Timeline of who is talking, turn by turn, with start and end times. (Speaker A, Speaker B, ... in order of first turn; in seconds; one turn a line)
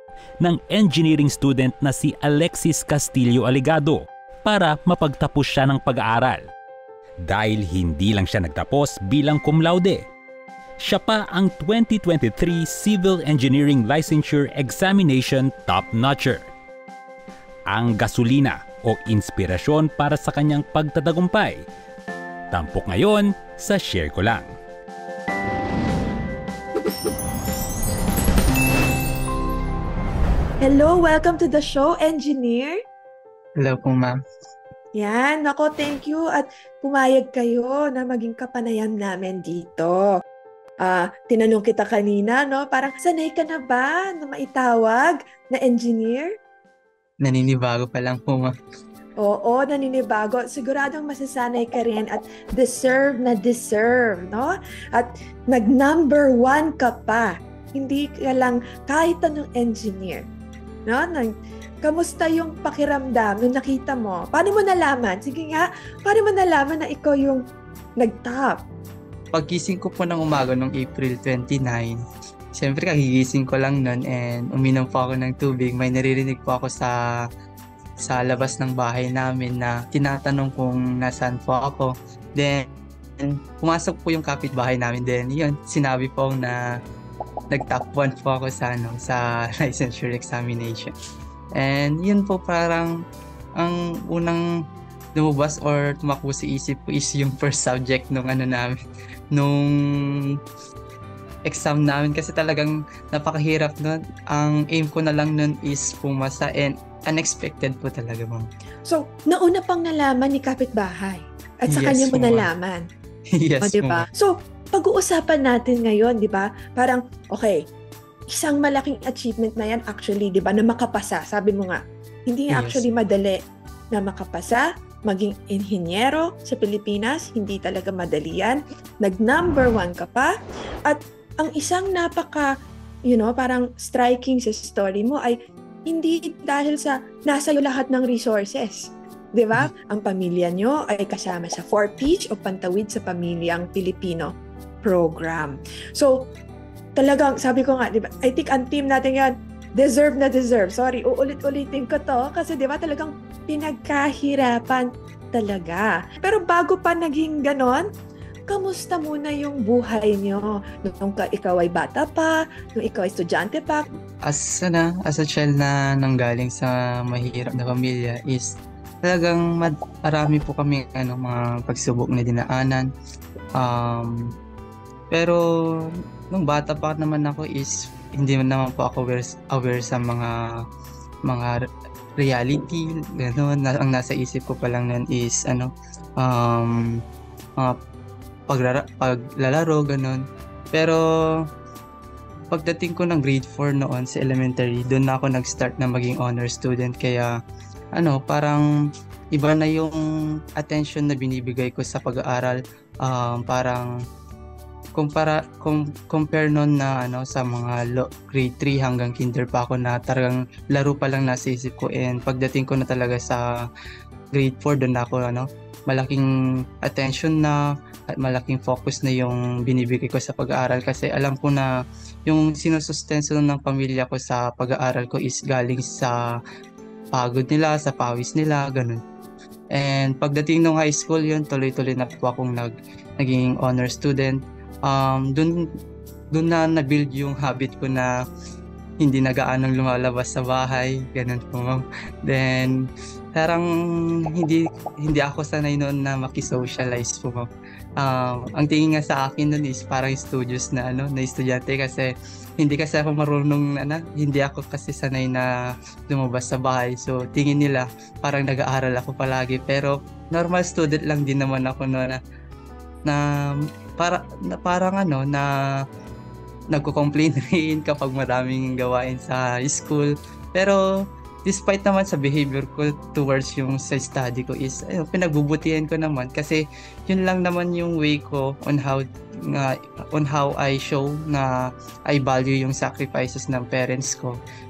Speaker A: 0.4-6.4
Speaker A: 7.3-10.0
Speaker A: 10.8-16.5
Speaker A: 17.7-21.6
Speaker A: 22.5-24.5
Speaker B: 30.6-32.8
Speaker C: 33.6-34.2
Speaker B: 35.0-40.0
Speaker B: 40.8-46.3
Speaker C: 47.2-48.5
Speaker B: 49.2-60.2
Speaker B: 60.9-61.3
Speaker B: 61.8-67.4
Speaker B: 68.0-68.6
Speaker C: 69.3-72.0
Speaker C: 72.5-77.3
Speaker C: 78.0-86.6
Speaker C: 87.5-90.9
Speaker C: 91.6-92.9
Speaker C: 93.6-94.4
Speaker C: 95.2-98.8
Speaker C: 99.3-100.4
Speaker C: 101.5-108.5
Speaker B: 108.8-112.8
Speaker C: 111.7-112.5
Speaker C: 113.3-114.1
Speaker B: 113.6-117.6
Speaker B: 118.3-123.4
Speaker C: 122.5-122.8
Speaker B: 123.9-130.3
Speaker B: 130.9-132.5
Speaker B: 133.1-135.4
Speaker B: 135.9-144.3
Speaker B: 144.8-146.2
Speaker B: 147.0-157.9
Speaker B: 158.5-163.8
Speaker C: 164.2-172.9
Speaker C: 173.6-174.1
Speaker C: 175.1-175.4
Speaker C: 176.3-180.3
Speaker C: 181.3-181.6
Speaker C: 182.2-186.8
Speaker C: 188.5-190.2
Speaker C: 190.7-191.4
Speaker C: 192.5-197.3
Speaker C: 197.9-198.6
Speaker C: 199.3-200.0
Speaker C: 200.6-203.9
Speaker C: 204.9-213.5
Speaker C: 214.3-216.3
Speaker C: 216.8-221.7
Speaker C: 222.3-226.2
Speaker C: 227.1-229.0
Speaker C: 229.7-235.6
Speaker C: 236.3-238.1
Speaker C: 239.0-243.7
Speaker C: 244.3-247.5
Speaker C: 248.0-255.5
Speaker C: 256.1-262.2
Speaker C: 264.0-265.5
Speaker C: 266.7-270.8
Speaker C: 271.4-281.5
Speaker C: 282.1-284.4